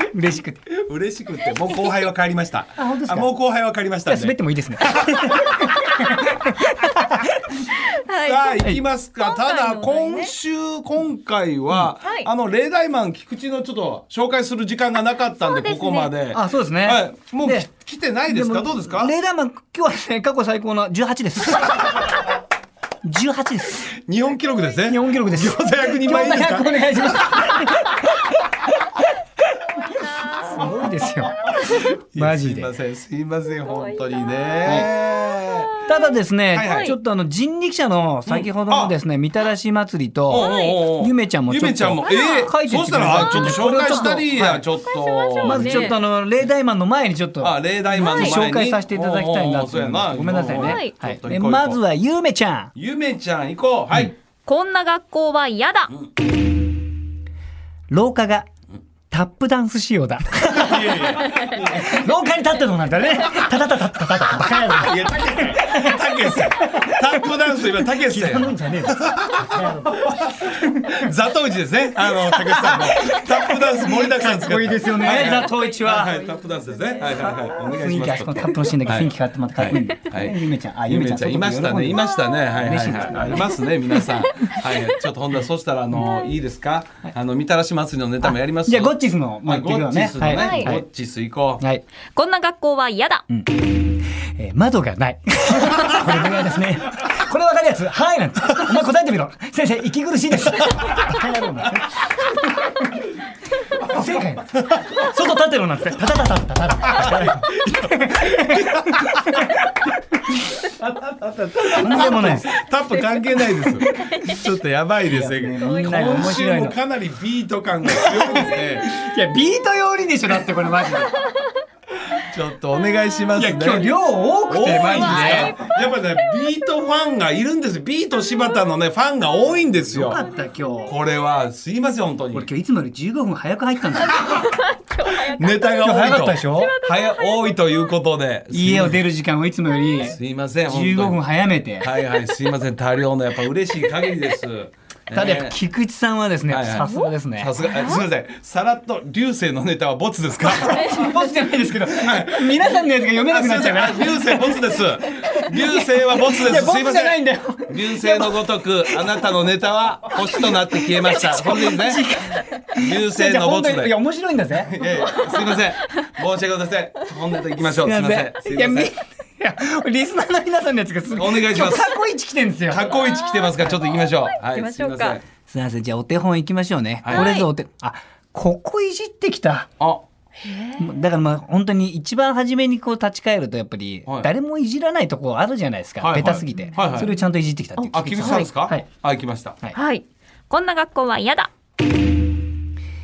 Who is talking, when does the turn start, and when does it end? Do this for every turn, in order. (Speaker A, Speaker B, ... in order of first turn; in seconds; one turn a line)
Speaker A: 0.1-0.6
Speaker B: 0.7-5.5
Speaker A: 2.8-3.3
Speaker A: 4.1-7.7
Speaker C: 7.8-10.3
Speaker B: 8.2-19.1
Speaker C: 12.0-12.3
Speaker C: 15.4-16.1
Speaker A: 16.3-17.7
Speaker A: 18.3-22.3
Speaker A: 23.0-23.9
Speaker B: 24.0-27.7
Speaker A: 24.9-28.5
Speaker A: 29.8-31.5
Speaker C: 30.1-30.5
Speaker B: 31.4-35.7
Speaker C: 31.5-31.8
Speaker A: 32.1-32.7
Speaker C: 33.6-37.0
Speaker A: 35.9-44.6
Speaker B: 36.5-36.9
Speaker B: 38.2-38.9
Speaker B: 40.3-45.9
Speaker C: 40.3-40.8
Speaker C: 42.0-42.5
Speaker C: 43.4-44.1
Speaker C: 44.9-46.0
Speaker A: 45.4-52.7
Speaker B: 47.4-51.8
Speaker C: 48.0-48.4
Speaker C: 50.5-50.9
Speaker B: 52.7-54.1
Speaker C: 54.5-55.9
Speaker A: 57.9-58.5
Speaker A: 59.1-70.9
Speaker B: 60.5-62.0
Speaker B: 64.7-91.6
Speaker A: 72.1-76.1
Speaker C: 75.0-77.6
Speaker A: 77.7-82.1
Speaker C: 82.0-83.6
Speaker A: 82.6-83.6
Speaker C: 84.2-85.0
Speaker C: 86.0-86.3
Speaker A: 88.2-90.8
Speaker C: 90.2-90.7
Speaker C: 92.1-93.2
Speaker A: 93.3-102.8
Speaker A: 103.8-109.0
Speaker B: 104.5-104.8
Speaker B: 106.8-109.6
Speaker A: 109.6-110.3
Speaker B: 110.6-118.9
Speaker A: 111.7-112.5
Speaker C: 112.9-114.5
Speaker A: 115.1-116.8
Speaker C: 115.5-116.5
Speaker A: 117.9-121.1
Speaker B: 122.2-123.9
Speaker A: 123.4-125.5
Speaker B: 124.5-130.2
Speaker C: 124.6-126.5
Speaker A: 129.8-131.0
Speaker B: 130.8-132.5
Speaker A: 132.3-134.2
Speaker C: 134.1-135.7
Speaker B: 135.2-139.0
Speaker A: 135.8-136.7
Speaker C: 136.6-137.7
Speaker A: 138.5-141.9
Speaker B: 140.0-141.2
Speaker B: 141.8-145.6
Speaker A: 145.1-147.5
Speaker B: 146.5-151.0
Speaker C: 146.7-148.1
Speaker A: 150.4-159.2
Speaker B: 152.0-162.1
Speaker A: 160.1-164.7
Speaker B: 162.8-163.9
Speaker B: 164.6-168.9
Speaker A: 167.6-173.0
Speaker B: 171.1-171.9
Speaker B: 172.7-175.2
Speaker C: 172.9-175.2
Speaker A: 175.5-179.7
Speaker B: 177.0-177.3
Speaker C: 177.1-177.5
Speaker C: 180.4-180.9
Speaker A: 180.8-188.8
Speaker B: 186.0-187.1
Speaker C: 186.5-187.1
Speaker C: 187.8-188.5
Speaker B: 187.9-189.6
Speaker C: 189.7-191.5